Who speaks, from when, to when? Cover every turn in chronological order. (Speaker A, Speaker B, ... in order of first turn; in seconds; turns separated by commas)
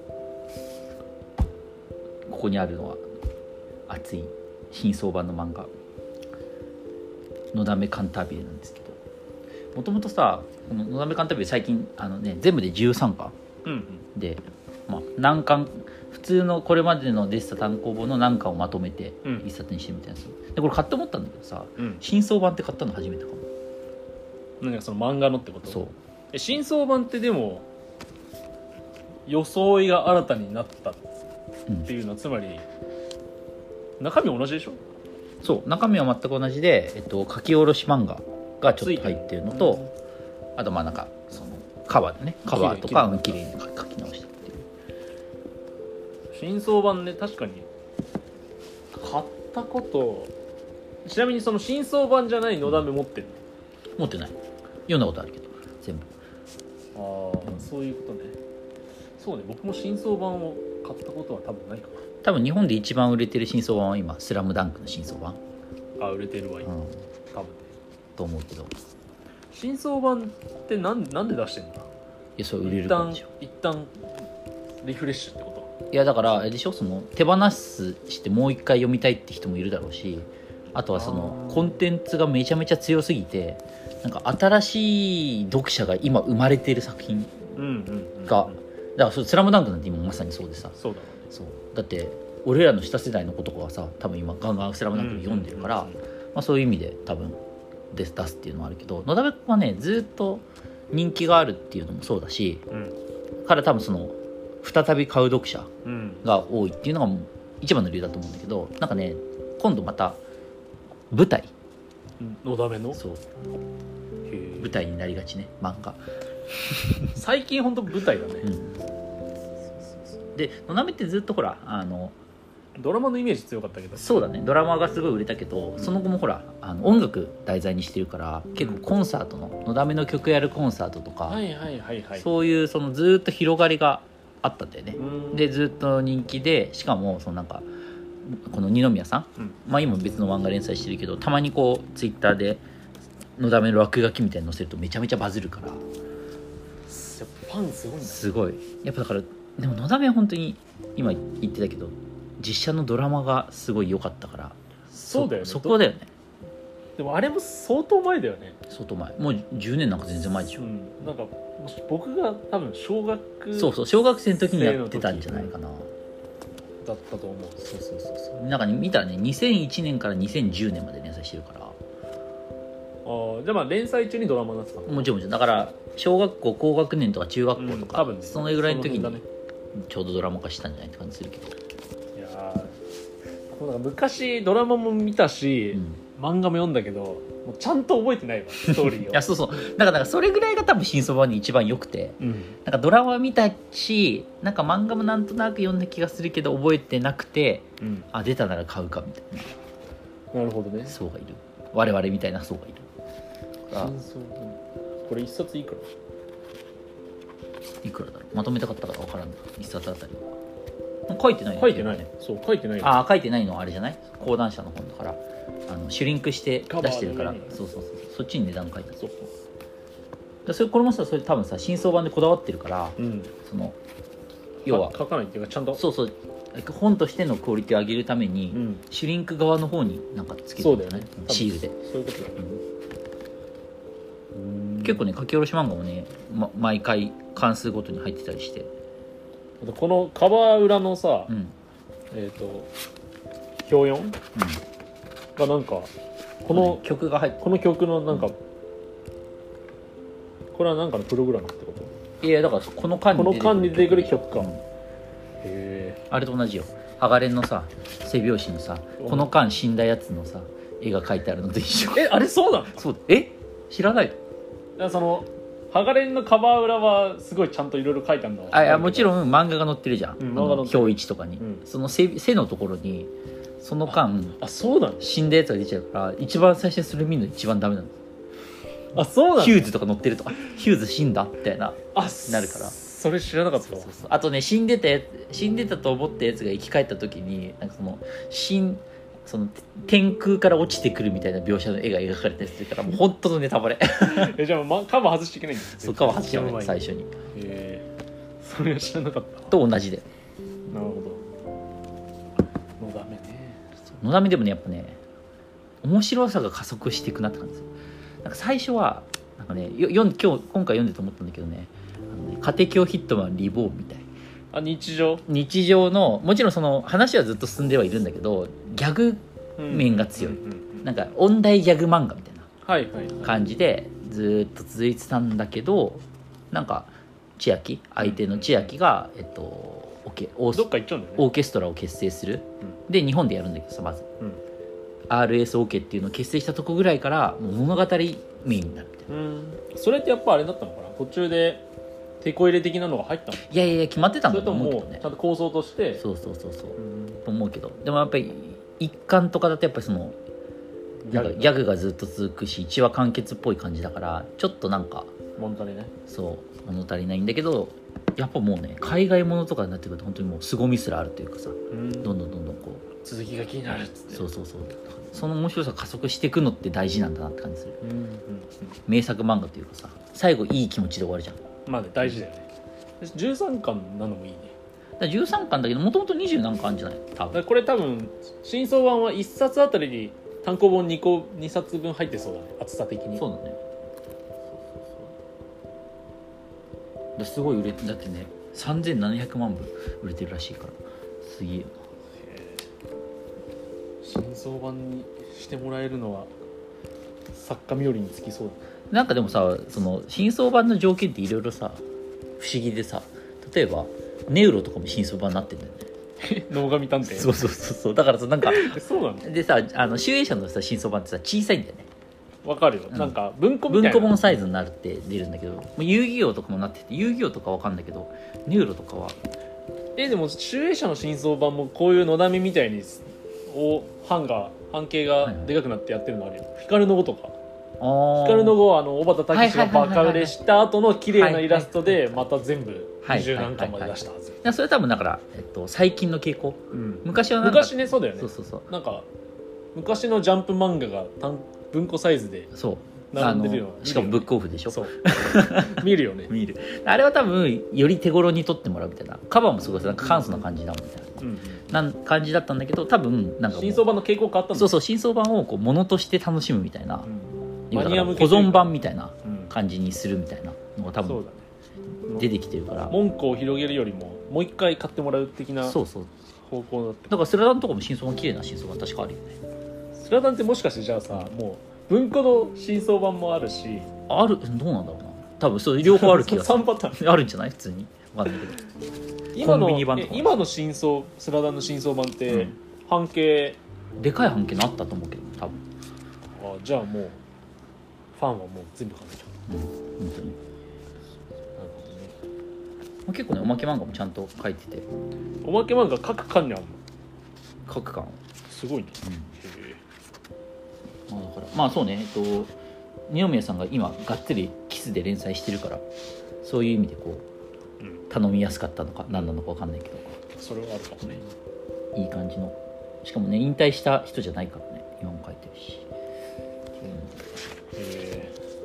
Speaker A: 2.3-3.0, Speaker A: 3.9-5.7, Speaker A: 7.5-9.0, Speaker A: 9.7-13.3, Speaker B: 13.6-14.0, Speaker A: 14.1-23.4, Speaker B: 24.6-27.6, Speaker A: 25.6-25.9, Speaker B: 29.3-31.0, Speaker B: 31.8-32.6, Speaker B: 34.0-34.8, Speaker A: 35.4-39.8, Speaker B: 38.7-39.9, Speaker A: 40.6-44.7, Speaker B: 42.5-43.4, Speaker B: 46.3-47.7, Speaker B: 48.9-50.3, Speaker B: 51.0-53.4, Speaker A: 54.0-54.4, Speaker A: 54.9-56.1, Speaker B: 56.9-58.4, Speaker B: 59.2-62.0, Speaker A: 62.2-65.4, Speaker B: 66.0-66.7, Speaker A: 66.6-67.0, Speaker B: 67.3-67.7, Speaker A: 68.2-68.7, Speaker B: 69.5-71.9, Speaker A: 72.4-73.3, Speaker B: 72.6-74.0, Speaker B: 74.8-75.7, Speaker A: 75.9-87.4, Speaker B: 80.9-81.8, Speaker B: 87.5-88.6, Speaker A: 88.3-90.8, Speaker B: 90.7-91.3, Speaker A: 91.3-97.4, Speaker B: 94.9-96.0, Speaker A: 97.9-102.6, Speaker B: 102.7-103.0, Speaker A: 103.4-105.7, Speaker B: 105.8-106.3, Speaker A: 106.2-110.2, Speaker A: 111.1-111.5, Speaker B: 112.2-113.0, Speaker A: 112.9-113.2, Speaker B: 114.2-114.8, Speaker A: 114.6-116.0, Speaker B: 117.1-118.5, Speaker A: 118.4-118.8, Speaker A: 120.3-122.1, Speaker B: 122.8-124.3, Speaker A: 124.0-131.4, Speaker B: 128.6-128.8, Speaker B: 131.3-132.2, Speaker A: 132.2-137.7, Speaker B: 135.0-135.5, Speaker A: 138.3-142.6, Speaker A: 143.4-145.8, Speaker B: 146.9-148.3, Speaker A: 148.0-154.6, Speaker B: 154.9-155.8, Speaker A: 155.1-156.1, Speaker B: 157.0-158.6, Speaker A: 158.7-160.7, Speaker B: 160.6-163.8, Speaker A: 163.5-165.9, Speaker B: 164.3-165.5, Speaker B: 166.8-167.6, Speaker A: 167.6-171.8, Speaker B: 173.0-175.1, Speaker A: 174.8-179.2, Speaker B: 177.6-179.2, Speaker A: 179.7-181.5, Speaker B: 182.1-182.7, Speaker B: 183.5-189.2, Speaker A: 185.7-186.0, Speaker A: 188.7-199.5, Speaker B: 192.2-192.6, Speaker B: 197.8-198.1, Speaker B: 200.3-201.0, Speaker A: 200.9-202.8, Speaker A: 203.7-203.9, Speaker B: 203.7-205.9, Speaker A: 207.8-210.3, Speaker A: 211.1-212.1, Speaker B: 211.5-213.0, Speaker A: 212.8-218.9, Speaker B: 216.7-217.6, Speaker B: 218.9-219.3, Speaker A: 220.4-223.8, Speaker B: 223.0-223.3, Speaker B: 224.6-225.8, Speaker A: 224.7-225.0, Speaker A: 225.7-231.7, Speaker B: 228.5-228.8, Speaker B: 230.6-232.6, Speaker B: 234.3-235.0, Speaker A: 234.8-238.7, Speaker B: 239.6-241.3, Speaker A: 241.3-241.5, Speaker B: 242.1-242.7, Speaker B: 243.6-244.2, Speaker A: 244.3-244.6, Speaker B: 245.4-245.9, Speaker B: 246.4-246.8, Speaker A: 246.5-247.4, Speaker B: 247.4-248.3, Speaker B: 250.5-251.9, Speaker A: 252.2-254.6, Speaker B: 253.1-254.5, Speaker B: 255.4-256.0, Speaker A: 256.1-262.2, Speaker B: 259.0-259.3, Speaker B: 261.9-262.9, Speaker A: 262.8-264.2, Speaker B: 264.8-269.2, Speaker A: 268.5-274.4, Speaker B: 270.2-271.6, Speaker B: 273.9-275.1, Speaker A: 275.0-277.9, Speaker B: 278.9-279.7, Speaker A: 279.4-282.7, Speaker B: 281.9-283.9, Speaker A: 283.6-294.4, Speaker B: 294.0-296.8, Speaker A: 295.8-297.1, Speaker B: 297.3-297.9, Speaker B: 298.4-299.6, Speaker A: 299.5-300.1, Speaker B: 300.7-301.2, Speaker B: 302.8-303.6, Speaker A: 304.0-305.0, Speaker A: 305.8-307.7, Speaker A: 308.2-314.1, Speaker B: 314.5-315.2, Speaker A: 315.3-322.5, Speaker B: 319.6-320.9, Speaker B: 322.6-323.5, Speaker A: 323.2-334.1, Speaker B: 328.0-328.7, Speaker B: 330.5-331.3, Speaker A: 335.1-339.1, Speaker B: 339.1-341.6, Speaker B: 342.2-343.5, Speaker A: 343.5-345.0, Speaker B: 344.3-346.0, Speaker A: 346.0-350.2, Speaker B: 346.8-347.2, Speaker B: 351.0-351.6, Speaker A: 351.1-355.1, Speaker B: 355.4-355.9, Speaker A: 356.1-362.9, Speaker B: 361.7-362.2, Speaker B: 363.0-364.3, Speaker A: 364.1-367.8, Speaker B: 367.8-368.8, Speaker A: 368.9-371.4, Speaker B: 371.6-372.5, Speaker B: 373.0-374.5, Speaker A: 375.0-377.4, Speaker B: 377.3-383.2, Speaker A: 383.1-383.6, Speaker A: 384.5-385.1, Speaker A: 387.2-391.7, Speaker B: 392.2-392.6, Speaker B: 394.0-396.3, Speaker B: 397.3-398.6, Speaker A: 398.9-401.8, Speaker A: 402.4-405.9, Speaker B: 406.2-407.4, Speaker A: 407.1-411.9, Speaker B: 408.4-409.3, Speaker B: 412.4-414.2, Speaker A: 412.9-413.1, Speaker A: 413.7-419.2, Speaker B: 420.0-427.4, Speaker A: 425.2-425.5, Speaker A: 427.8-428.6, Speaker B: 428.2-434.4, Speaker A: 429.3-430.4, Speaker A: 431.1-432.3, Speaker A: 433.0-438.7, Speaker B: 436.7-439.1, Speaker B: 439.7-442.5, Speaker A: 442.5-453.9, Speaker B: 443.1-446.3, Speaker B: 449.6-450.5, Speaker B: 451.2-451.7, Speaker B: 453.5-454.7, Speaker A: 454.5-457.1, Speaker B: 457.0-459.5, Speaker A: 457.7-461.2, Speaker B: 461.0-461.4, Speaker A: 462.1-462.9, Speaker B: 462.9-465.8, Speaker A: 465.6-466.1, Speaker B: 466.5-467.3, Speaker A: 467.1-469.4, Speaker B: 469.9-473.9, Speaker A: 474.1-478.6, Speaker B: 475.8-477.1, Speaker B: 479.3-483.6, Speaker A: 479.4-480.4, Speaker A: 482.3-482.5, Speaker A: 484.0-485.6, Speaker B: 486.3-487.2, Speaker B: 488.1-489.3, Speaker A: 489.5-490.4, Speaker B: 491.6-492.1, Speaker A: 493.1-494.9, Speaker B: 495.4-496.8, Speaker A: 497.7-498.2, Speaker B: 498.5-499.8, Speaker A: 499.0-499.3, Speaker A: 501.1-502.5, Speaker A: 503.1-505.8, Speaker A: 506.4-507.2, Speaker A: 508.1-510.2, Speaker B: 510.4-511.2, Speaker A: 511.9-515.9, Speaker A: 516.8-517.1, Speaker B: 517.8-518.3